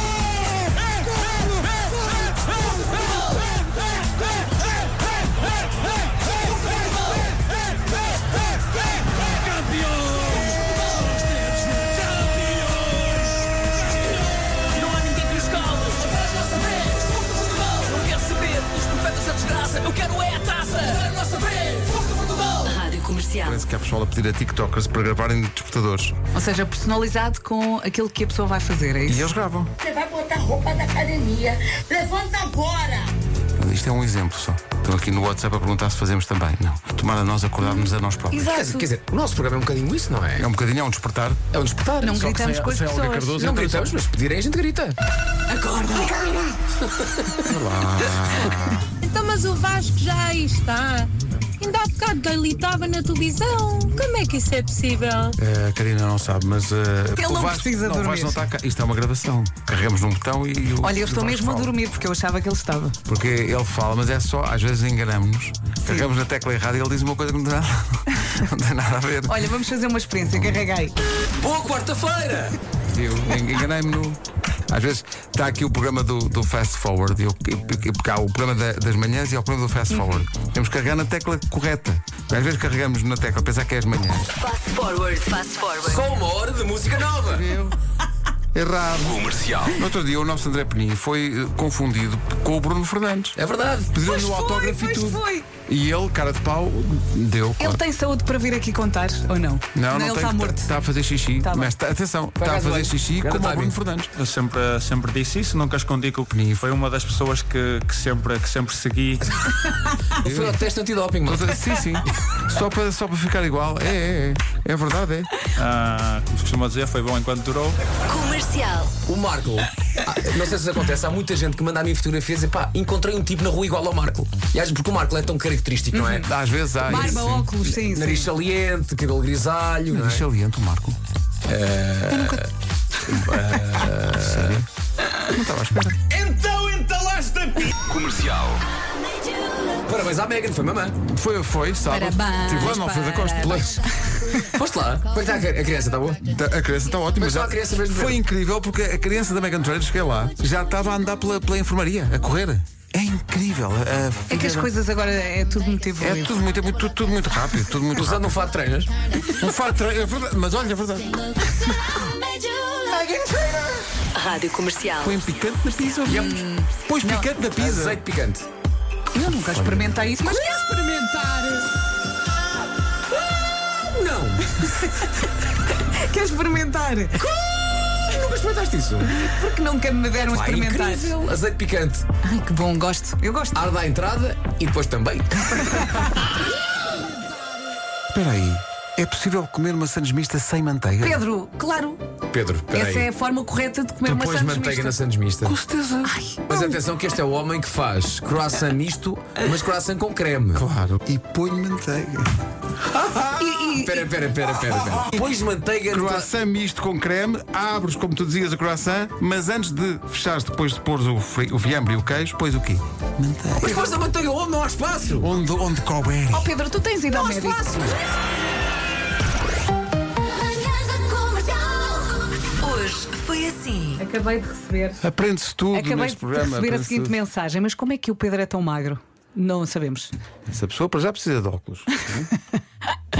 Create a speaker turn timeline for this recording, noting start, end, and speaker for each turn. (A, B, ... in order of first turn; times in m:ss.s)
0:09.6-0:13.0 A
0:14.7-0:22.6 A
0:22.6-0:23.6 B
0:23.4-0:26.2 C
0:26.3-0:29.2 D
0:29.0-0:29.7 C
0:29.8-0:33.1 E
0:33.6-0:38.5 C
0:37.7-0:38.9 D
0:38.4-0:40.5 F
0:40.4-0:41.4 C
0:41.5-0:42.3 F
0:42.0-0:43.5 D
0:42.2-0:43.9 C
0:43.3-0:45.0 F
0:46.8-0:47.4 F
0:47.4-0:48.9 C
0:49.0-0:55.4 G
0:55.4-1:01.7 C
0:57.2-0:58.4 D
1:00.8-1:03.0 D
1:03.0-1:09.6 C
1:09.3-1:10.9 D
1:11.4-1:12.6 F
1:12.9-1:24.3 C
1:19.9-1:20.2 D
1:24.4-1:26.0 B
1:25.8-1:27.5 F
1:27.2-1:27.8 C
1:28.5-1:33.4 C
1:33.4-1:33.9 F
1:33.9-1:37.8 C
1:34.0-1:35.5 D
1:37.6-1:40.7 D
1:39.7-1:44.1 C
1:41.4-1:41.7 D
1:42.4-1:43.8 F
1:44.2-1:49.2 H
1:46.3-1:46.7 C
1:50.2-1:51.8 F
1:50.2-1:50.6 C
1:51.2-1:55.3 C
1:55.6-1:57.8 H
1:58.1-1:58.9 B
1:59.0-2:06.3 F
2:05.9-2:06.2 D
2:06.2-2:07.5 C
2:06.8-2:08.3 D
2:06.8-2:10.2 F
2:09.9-2:11.0 C
2:11.5-2:12.5 F
2:12.1-2:12.4 C
2:13.0-2:14.6 F
2:14.2-2:14.6 C
2:15.2-2:16.0 C
2:16.1-2:18.4 F
2:17.9-2:18.6 E
2:19.3-2:19.8 B
2:19.8-2:21.0 F
2:21.0-2:23.8 C
2:21.9-2:24.5 D
2:23.4-2:23.8 F
2:24.5-2:26.2 F
2:26.2-2:34.7 C
2:27.2-2:28.2 F
2:34.3-2:36.4 D
2:36.0-2:38.4 C
2:37.9-2:38.9 F
2:39.3-2:41.6 C
2:42.0-2:42.9 B
2:43.0-2:43.6 D
2:44.1-2:45.2 B
2:45.0-2:48.0 C
2:46.1-2:46.4 F
2:46.6-2:47.3 D
2:47.6-2:48.5 F
2:49.1-2:51.6 D
2:49.5-2:49.8 C
2:53.8-2:54.8 F
2:54.6-2:55.0 D
2:55.8-2:57.2 D
2:57.2-2:59.2 F
2:59.1-3:01.2 D
3:00.1-3:02.0 F
3:02.2-3:03.6 D
3:03.5-3:06.2 F
3:08.1-3:11.2 C
3:11.0-3:12.0 D
3:12.3-3:13.1 F
3:12.7-3:15.0 D
3:14.0-3:15.5 F
3:15.4-3:16.1 C
3:16.0-3:16.8 D
3:16.5-3:20.6 F
3:20.5-3:22.3 C
3:22.9-3:23.6 C
3:23.4-3:24.1 D
3:23.8-3:26.3 F
3:24.6-3:25.2 C
3:25.9-3:33.9 C
3:33.6-3:35.3 F
3:35.2-3:36.5 C
3:36.3-3:37.6 D
3:37.1-3:38.0 F
3:40.4-3:44.0 B
3:44.0-3:45.0 D
3:45.0-3:47.2 C
3:45.7-3:50.1 D
3:50.5-3:52.1 C